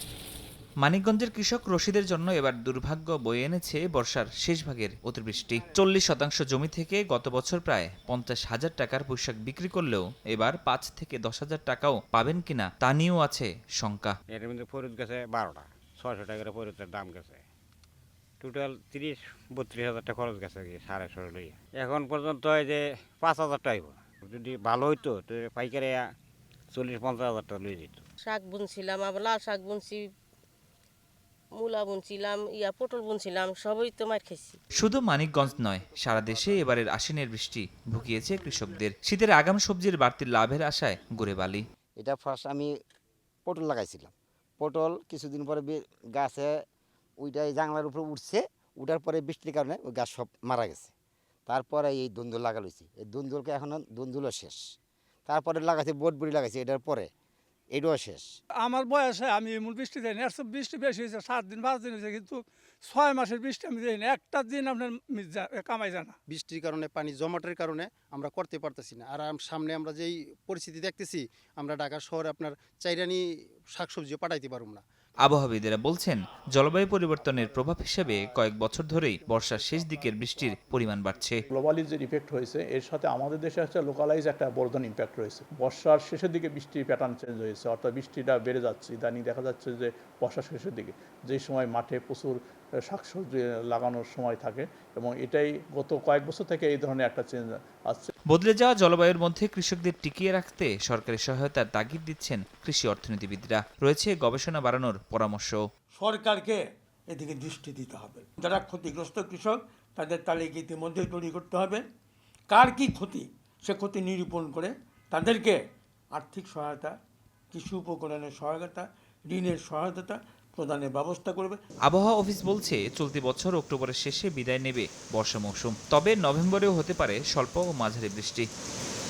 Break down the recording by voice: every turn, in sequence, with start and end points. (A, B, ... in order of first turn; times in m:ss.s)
0:00.8-0:14.2 A
0:14.3-0:17.4 B
0:18.4-0:26.0 B
0:26.7-0:28.0 B
0:28.2-0:30.0 C
0:31.6-0:34.6 C
0:34.8-0:41.6 A
0:42.0-0:42.7 D
0:43.5-0:46.5 D
0:47.2-0:50.9 D
0:51.5-0:54.6 D
0:55.3-0:57.1 D
0:57.7-0:58.3 D
0:58.6-1:06.2 E
1:06.3-1:13.2 F
1:13.8-1:14.8 F
1:15.2-1:21.4 A
1:17.2-1:38.1 G
1:38.3-1:45.6 A
1:46.0-1:46.6 H
1:47.1-1:51.8 H
1:52.5-1:55.6 H
1:56.2-1:56.9 H
1:57.5-2:01.6 H
2:01.9-2:08.5 A